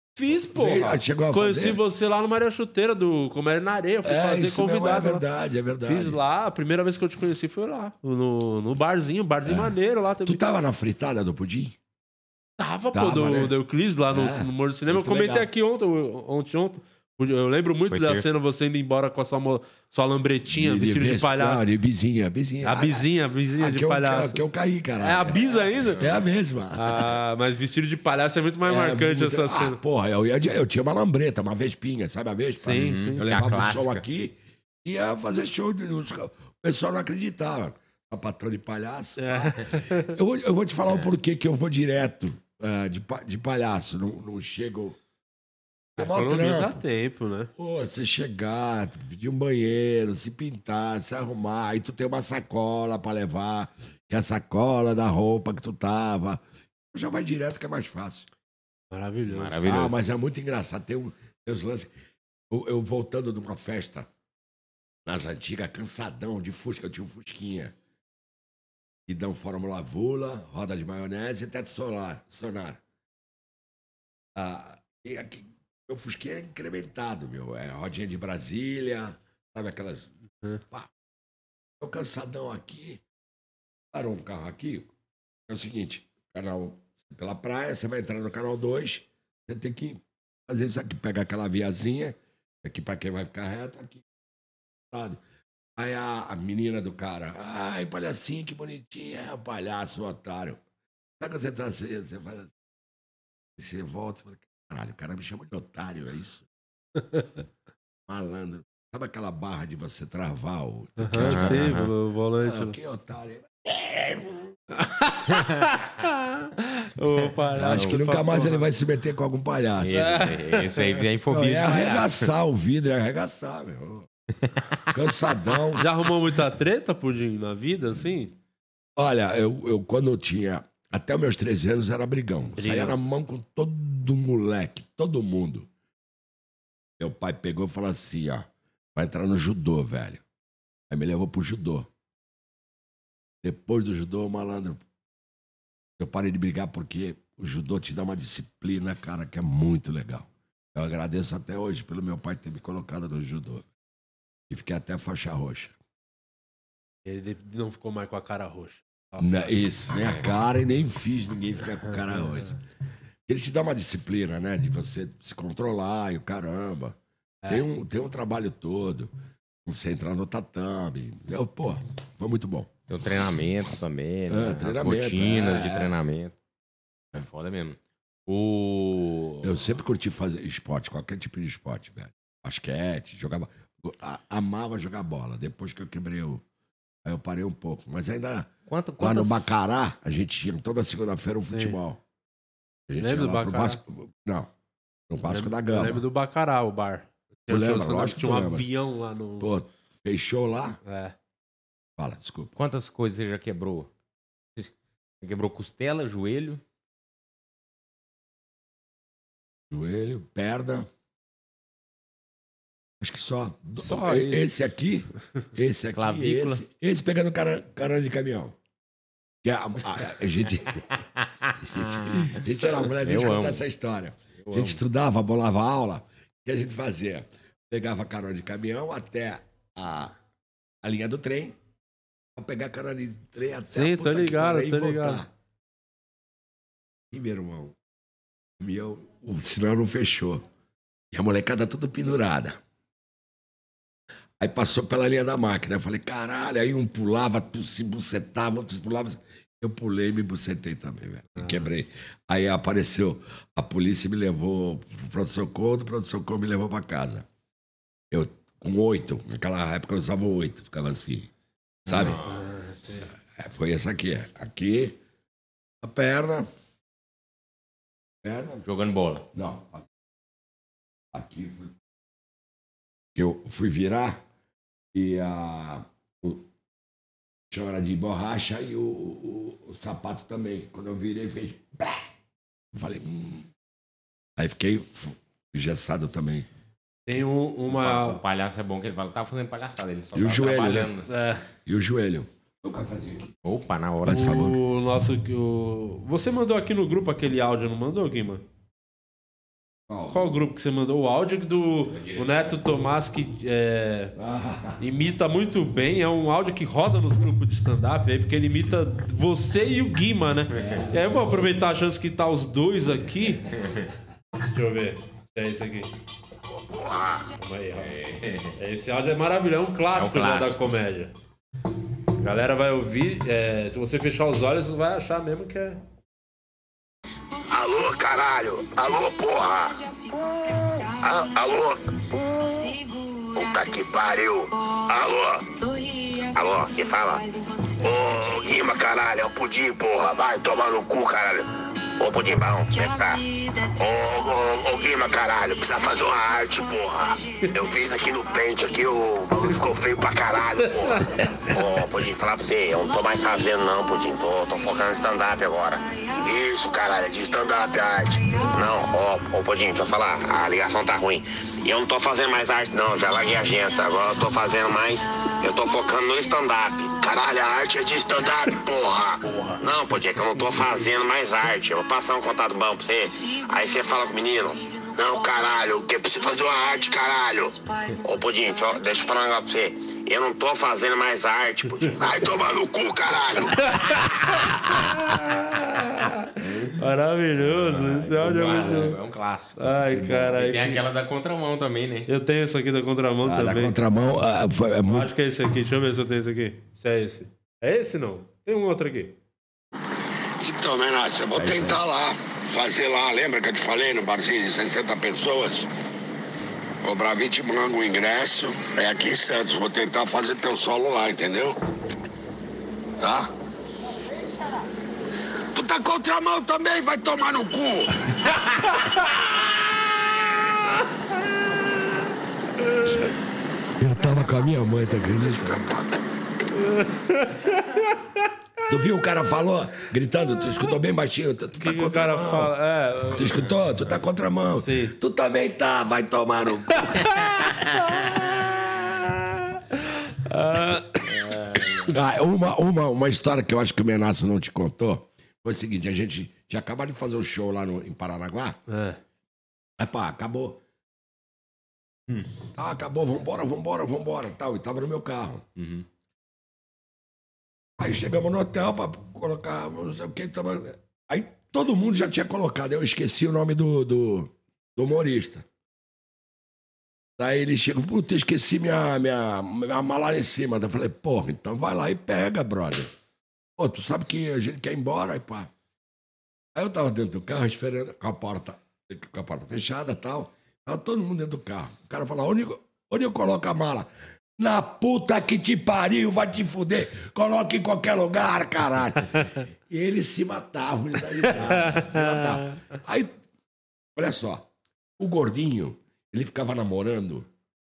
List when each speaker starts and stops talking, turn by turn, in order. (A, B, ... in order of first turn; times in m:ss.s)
0:00.2-0:05.2 A
0:00.4-0:01.8 B
0:04.0-0:06.2 B
0:05.8-0:10.4 A
0:09.4-0:11.8 B
0:12.6-0:21.6 A
0:12.9-0:13.5 B
0:14.1-0:15.5 B
0:17.9-0:18.3 C
0:20.5-0:25.4 B
0:22.6-0:24.4 A
0:25.0-0:26.0 A
0:25.5-0:26.2 C
0:26.0-0:27.1 B
0:26.7-0:29.8 A
0:28.6-0:45.0 B
0:32.6-0:33.2 A
0:32.7-0:34.0 C
0:39.2-0:40.1 A
0:46.0-0:46.8 B
0:46.0-0:47.5 A
0:47.6-0:58.3 B
0:58.9-0:59.6 A
0:59.3-1:00.0 C
0:59.6-1:01.9 B
1:02.5-1:04.1 B
1:05.0-1:07.7 B
1:09.1-1:12.8 B
1:14.3-1:20.1 B
1:21.8-1:23.0 B
1:23.9-1:24.9 B
1:25.5-1:34.0 B
1:34.9-1:35.2 B
1:35.8-1:40.6 B
1:41.2-1:42.5 B
1:43.6-1:46.5 B
1:47.0-1:47.3 A
1:48.1-1:51.8 B
1:51.0-1:52.8 A
1:51.2-1:51.9 C
1:52.4-1:54.6 B
1:54.8-1:58.6 A
1:57.6-2:00.2 B
1:59.8-2:02.3 C
1:59.9-2:01.0 A
2:01.3-2:04.1 B
2:04.9-2:05.9 B
2:05.8-2:08.3 A
2:09.0-2:15.7 B
2:12.6-2:13.0 A
2:17.0-2:20.2 B
2:20.9-2:21.9 B
2:23.4-2:24.8 B
2:26.0-2:33.7 B
2:34.5-2:35.8 B
2:37.0-2:39.6 A
2:39.2-2:42.5 B
2:43.3-2:49.1 B
2:49.6-2:52.7 B
2:52.9-2:56.3 C
2:54.3-2:55.9 B
2:57.1-2:59.7 C
2:59.4-3:06.4 B
3:07.0-3:12.0 B
3:08.7-3:09.6 C
3:11.5-3:11.8 A
3:12.9-3:14.5 B
3:13.0-3:13.8 A
3:15.1-3:16.0 B
3:15.3-3:19.5 A
3:17.5-3:18.6 B
3:19.4-3:20.8 B
3:20.8-3:21.1 A
3:22.0-3:22.5 B
3:22.6-3:23.9 C
3:24.6-3:26.6 C
3:29.7-3:30.9 B
3:33.0-3:38.6 B
3:33.8-3:34.5 A
3:35.9-3:36.6 C
3:39.4-3:40.8 B
3:41.4-3:42.4 C
3:41.6-3:50.2 B
3:43.0-3:43.6 C
3:44.4-3:44.8 C
3:50.8-3:51.6 B
3:52.4-3:55.3 B
3:53.7-3:55.2 A
3:57.1-3:57.8 B
3:58.6-4:00.4 B
4:01.1-4:02.6 B
4:04.4-4:17.3 B
4:11.4-4:11.6 A
4:18.1-4:21.3 B
4:21.8-4:22.2 B
4:21.9-4:23.0 C
4:22.2-4:23.1 A
4:23.1-4:25.0 B
4:25.8-4:26.5 B
4:28.2-4:28.6 B
4:28.6-4:29.2 C
4:29.3-4:29.9 B
4:31.1-4:31.7 B
4:33.1-4:34.2 B
4:34.9-4:36.4 B
4:37.5-4:42.1 B
4:42.7-4:43.5 B
4:44.4-4:46.5 B
4:47.1-4:48.2 A
4:47.7-4:51.1 C
4:50.1-4:50.9 B
4:51.1-4:51.4 A
4:51.6-4:53.3 B
4:53.4-4:54.4 C
4:54.0-4:54.6 B
4:54.1-4:58.4 A
4:59.9-5:00.3 B
5:00.1-5:04.1 A
5:01.9-5:02.6 C
5:04.2-5:04.8 B
5:04.8-5:13.4 A
5:10.5-5:10.9 C
5:14.5-5:15.9 A
5:16.5-5:17.2 D
5:17.4-5:18.0 A
5:17.8-5:18.5 C
5:18.6-5:21.1 A
5:19.9-5:20.7 C
5:22.2-5:25.8 A
5:27.5-5:35.4 D
5:36.3-6:23.7 D
6:24.8-6:29.0 A
6:27.5-6:28.9 B
6:28.1-6:29.7 C
6:29.6-6:30.8 A
6:29.9-6:30.4 B
6:30.3-6:32.1 C
6:32.1-6:33.8 A
6:33.2-6:35.1 B
6:34.9-6:39.1 A
6:40.4-6:45.6 D
6:41.3-6:42.4 B
6:46.8-6:48.4 B
6:47.0-6:51.5 D
6:55.5-6:57.9 D
7:03.8-7:05.7 B
7:05.5-7:05.9 D
7:06.5-7:08.3 A
7:08.7-7:12.5 B
7:11.6-7:13.5 A
7:13.1-7:17.2 B
7:14.6-7:15.0 A
7:17.2-7:18.2 A
7:19.7-7:21.1 A
7:21.9-7:28.6 B
7:28.7-7:29.0 A
7:29.8-7:30.6 B
7:32.5-7:35.5 B
7:35.6-7:35.8 C
7:37.8-7:45.4 B
7:47.2-7:52.9 B
7:53.6-7:55.5 B
7:56.5-8:13.2 B
8:11.4-8:12.6 A
8:14.0-8:17.3 B